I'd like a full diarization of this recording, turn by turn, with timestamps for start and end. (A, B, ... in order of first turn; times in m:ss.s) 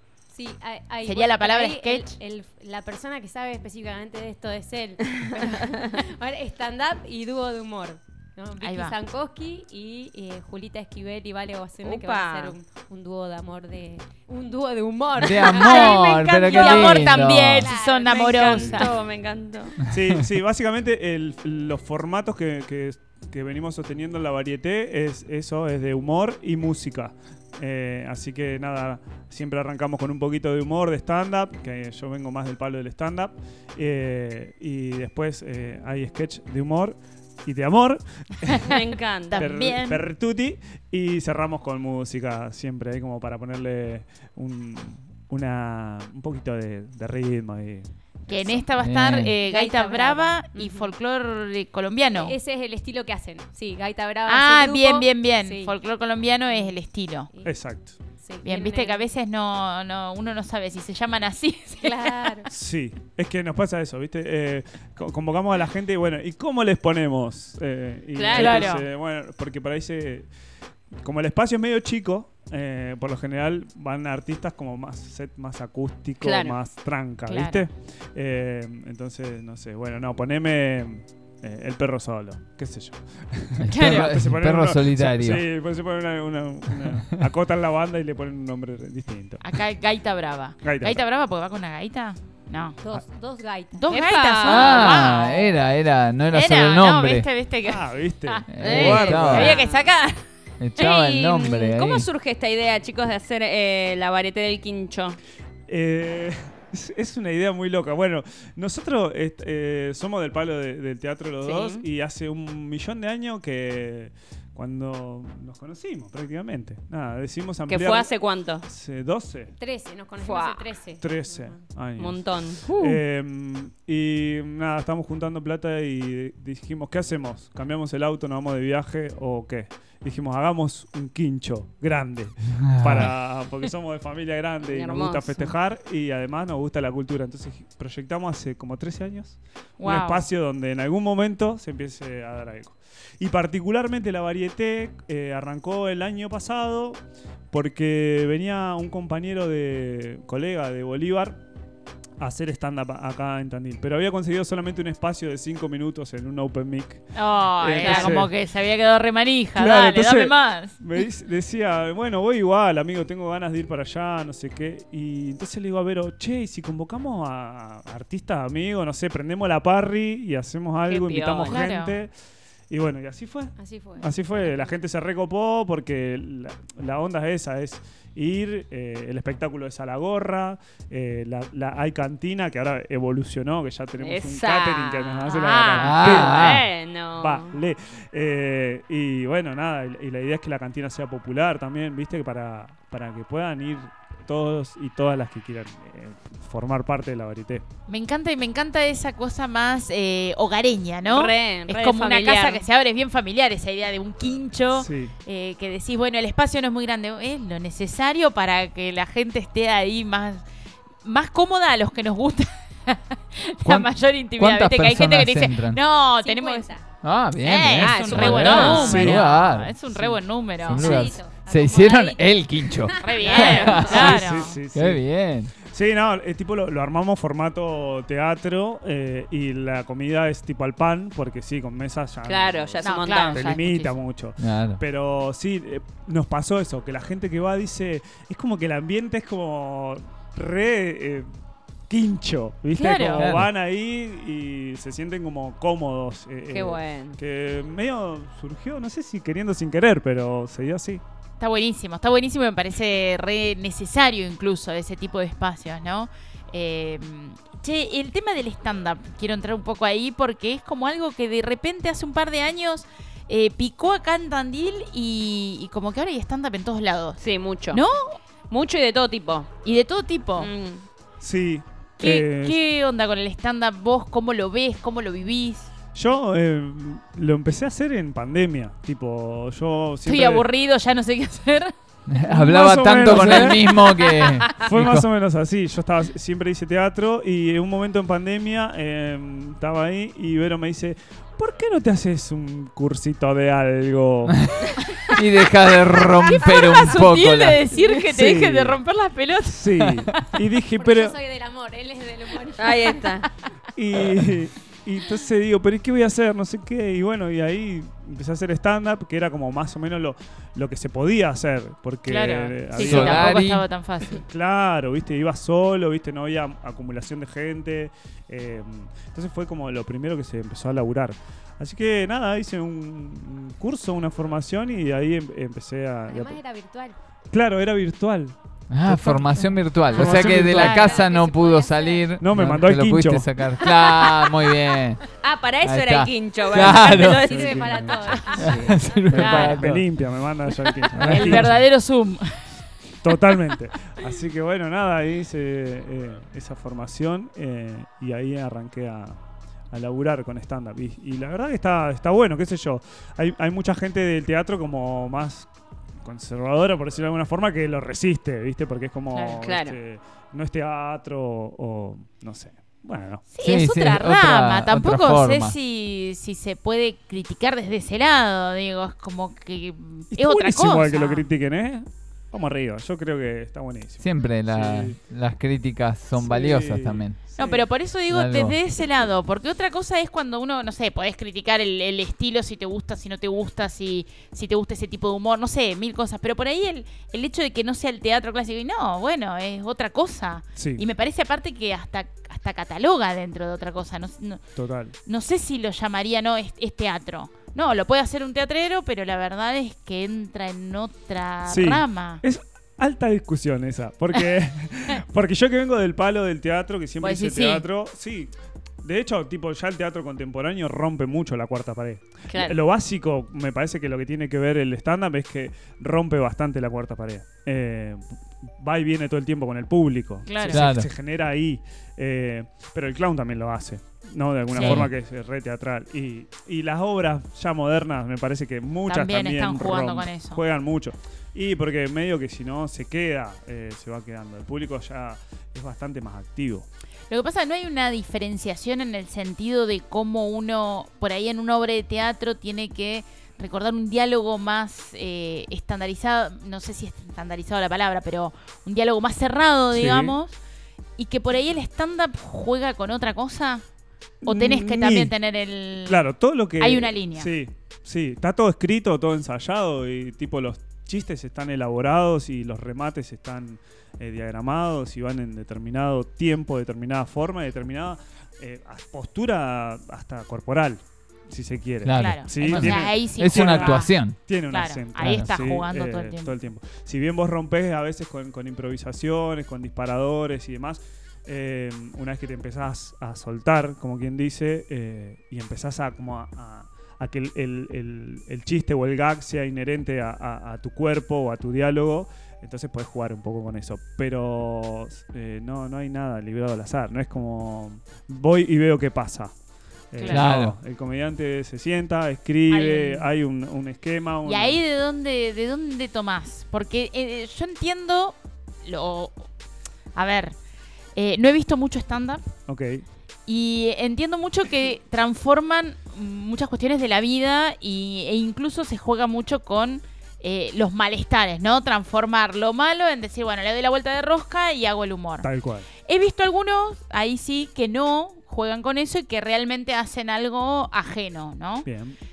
0:00.3-0:18.3 A
0:01.1-0:02.2 B
0:08.6-0:09.0 B
0:11.8-0:12.6 C
0:15.2-0:17.7 D
0:15.6-0:18.9 B
0:18.0-0:19.8 C
0:18.5-0:18.8 E
0:19.9-0:38.6 E
0:38.5-0:40.0 B
0:38.6-0:39.5 C
0:39.4-0:48.6 E
0:48.3-0:52.4 B
0:48.8-0:49.4 D
0:49.4-0:50.9 A
0:52.1-0:55.8 A
0:54.3-0:57.3 B
0:56.5-0:56.8 A
0:57.3-0:57.6 A
0:57.4-0:58.0 E
0:58.2-0:59.1 A
0:58.4-1:02.4 B
1:01.8-1:02.5 A
1:02.5-1:10.3 E
1:08.2-1:08.8 C
1:08.3-1:08.8 B
1:11.0-1:29.4 E
1:16.2-1:16.6 C
1:17.3-1:17.7 B
1:23.6-1:25.4 D
1:23.7-1:24.1 B
1:29.4-1:32.8 B
1:30.6-1:31.0 E
1:32.8-1:33.9 A
1:33.8-1:35.6 B
1:33.9-1:35.1 C
1:34.4-1:37.3 D
1:36.3-1:40.2 B
1:37.6-1:39.6 E
1:38.5-1:39.6 D
1:38.6-1:39.6 C
1:39.5-1:39.9 A
1:40.6-1:42.1 D
1:40.8-1:45.2 C
1:45.7-1:58.1 E
1:51.4-1:51.8 C
1:57.7-1:58.7 C
1:58.6-1:59.5 E
1:59.6-2:01.6 A
2:00.2-2:00.7 C
2:01.0-2:31.4 E
2:02.0-2:03.0 C
2:12.7-2:13.1 D
2:14.6-2:15.6 C
2:19.8-2:20.3 B
2:32.2-2:38.3 E
2:37.2-2:40.8 B
2:37.8-2:38.2 C
2:39.6-2:52.1 E
2:50.9-2:51.6 C
2:51.4-2:52.0 B
2:52.7-3:06.6 E
2:53.6-2:54.8 A
3:04.0-3:05.3 C
3:05.3-3:06.2 B
3:05.8-3:06.7 D
3:06.0-3:07.6 C
3:07.2-3:17.6 E
3:17.9-3:30.4 B
3:21.0-3:22.6 C
3:24.7-3:25.1 E
3:31.0-3:36.7 B
3:33.6-3:35.8 D
3:36.2-3:36.9 A
3:37.0-3:39.7 D
3:37.4-3:41.0 B
3:37.8-3:39.0 C
3:38.4-3:39.4 E
3:40.6-3:44.1 A
3:40.7-3:45.5 D
3:43.0-3:44.6 B
3:43.7-3:45.0 E
3:45.6-4:01.3 E
3:52.3-3:53.6 C
3:52.8-3:54.0 B
3:54.4-3:54.8 D
4:01.9-4:11.0 E
4:02.7-4:03.3 B
4:03.2-4:03.5 D
4:06.5-4:07.2 C
4:11.4-4:28.2 B
4:27.2-4:27.8 C
4:28.5-4:29.5 C
4:29.6-4:30.5 B
4:30.4-4:30.8 C
4:31.2-4:32.6 E
4:32.0-4:35.7 B
4:36.0-4:40.5 E
4:40.0-4:41.7 B
4:42.1-4:45.1 D
4:42.2-4:44.0 E
4:43.0-4:44.3 B
4:44.6-4:54.4 E
4:54.3-4:57.6 D
4:56.2-5:00.2 B
4:58.1-4:58.8 E
4:59.5-5:01.2 E
5:00.8-5:03.3 A
5:02.6-5:03.2 C
5:03.8-5:13.3 E
5:12.1-5:14.2 B
5:12.8-5:13.6 D
5:14.1-5:26.4 E
5:26.1-5:27.0 A
5:27.3-5:28.4 E
5:28.7-5:35.0 D
5:28.9-5:31.0 E
5:29.9-5:32.2 A
5:32.2-5:33.3 E
5:33.6-5:34.6 A
5:35.2-5:37.9 C
5:35.6-5:37.3 D
5:36.6-5:41.6 E
5:37.0-5:38.9 A
5:38.4-5:39.9 D
5:39.2-5:39.6 B
5:40.9-5:41.6 D
5:41.0-5:42.4 B
5:43.0-5:49.2 E
5:49.7-5:55.5 E
5:56.0-6:03.2 E
5:59.2-5:59.8 C
6:03.3-6:11.3 B
6:03.4-6:05.6 D
6:10.1-6:15.0 E
6:14.0-6:17.2 D
6:16.2-6:17.7 E
6:17.4-6:34.4 B
6:18.1-6:18.6 D
6:30.6-6:30.8 E
6:34.6-6:35.0 E
6:35.1-6:42.2 B
6:41.5-7:16.7 E
6:47.0-6:47.6 B
6:52.3-6:52.6 C
7:00.3-7:00.7 B
7:00.5-7:00.9 D
7:04.5-7:04.9 B
7:04.6-7:04.9 D
7:08.9-7:10.4 B
7:17.1-7:30.4 B
7:29.7-7:30.2 E
7:31.0-7:33.6 B
7:34.2-7:35.1 E
7:34.2-7:36.1 B
7:35.9-8:19.3 E
7:36.6-7:37.3 B
7:51.8-7:54.2 D
7:51.9-7:54.0 B
7:54.5-7:56.3 B
7:55.0-7:55.3 D
8:19.9-8:24.6 E
8:20.0-8:20.3 B
8:20.1-8:20.6 D
8:22.5-8:23.1 B
8:24.2-8:29.3 B
8:30.0-8:30.4 B
8:31.0-8:32.2 B
8:32.5-8:32.8 E
8:33.3-8:45.3 B
8:45.2-8:45.7 E
8:45.9-8:51.7 B
8:51.6-8:52.0 E